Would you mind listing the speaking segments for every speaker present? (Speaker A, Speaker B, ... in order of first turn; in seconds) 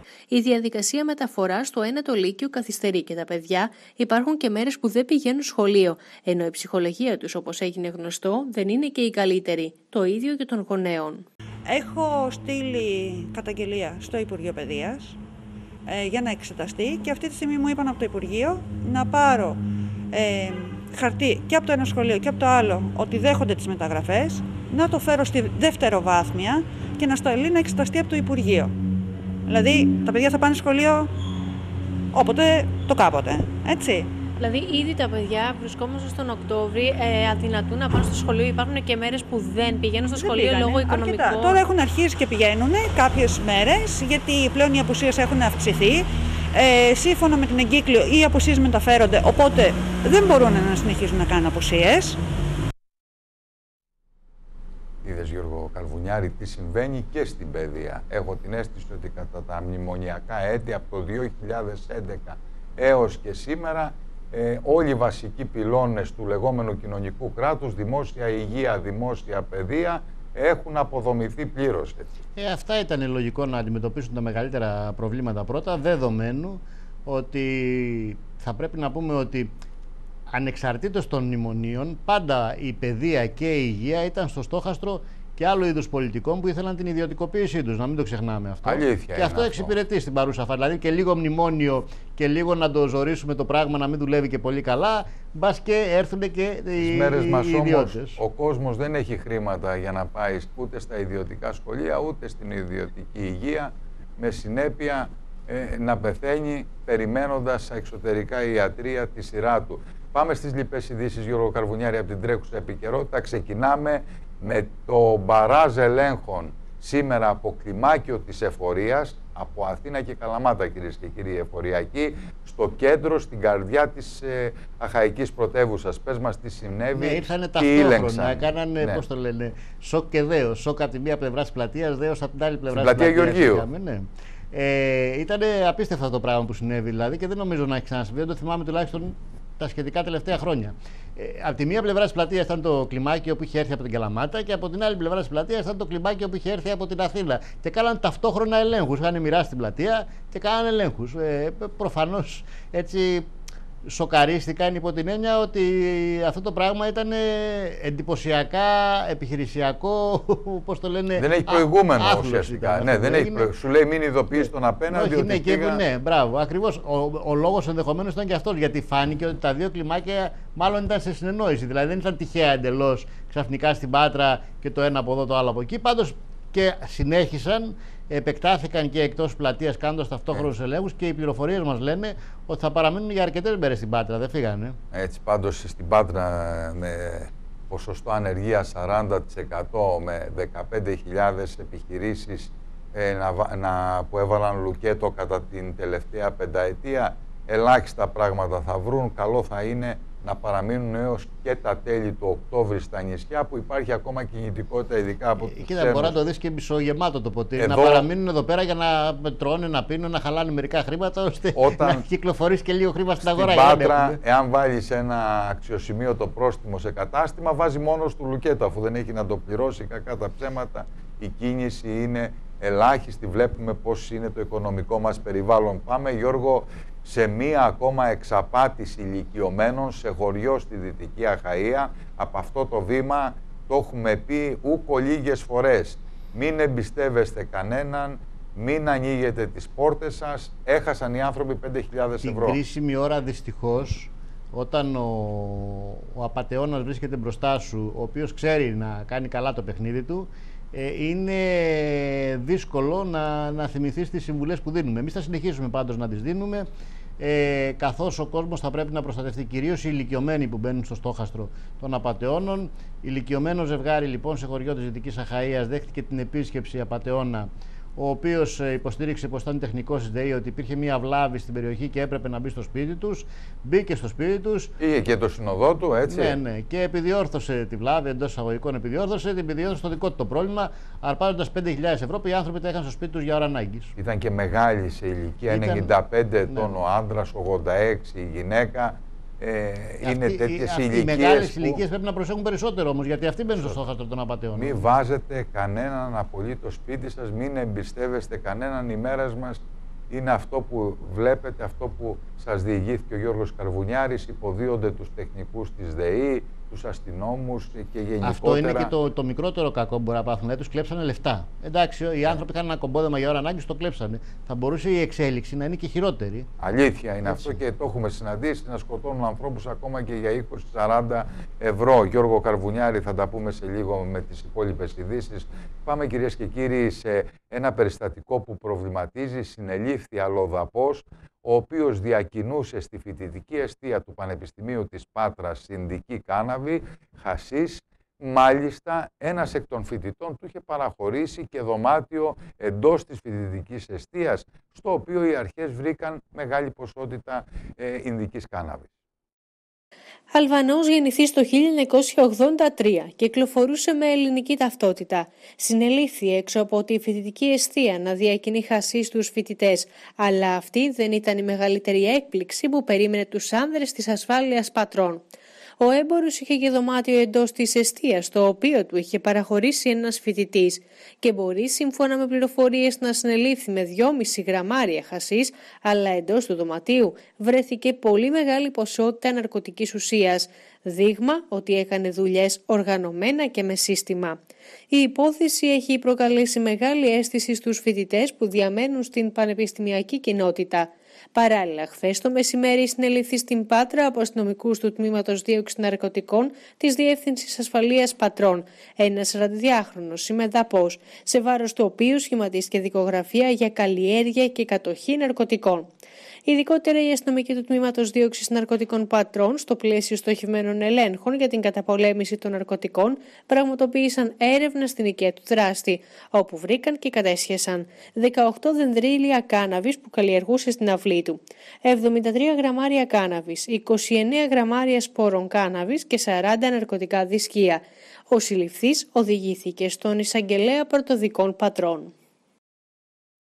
Speaker A: 0.3-11.2, 34.4-41.6, 350.3-365.2, 365.8-384.4, 384.9-405.9, 406.5-432.1
Speaker B: 11.7-15.2, 15.9-19.6, 20.1-28.8, 29.5-31.1, 32.1-34.1, 40.1-52.2
Speaker C: 55.0-72.2, 88.6-89.8, 96.8-129.0, 132.7-133.7, 161.2-165.8, 184.9-206.2, 207.6-208.1, 211.6-212.0, 213.2-242.6, 274.8-276.4, 283.9-291.8, 294.6-308.9, 316.6-348.9
Speaker D: 72.4-79.5, 80.3-98.2, 127.0-153.3, 153.9-163.5, 164.9-184.8, 205.4-214.2, 242.2-256.7, 257.2-274.7, 276.1-283.9, 285.5-285.9, 290.0-294.8, 308.2-316.5, 317.2-317.6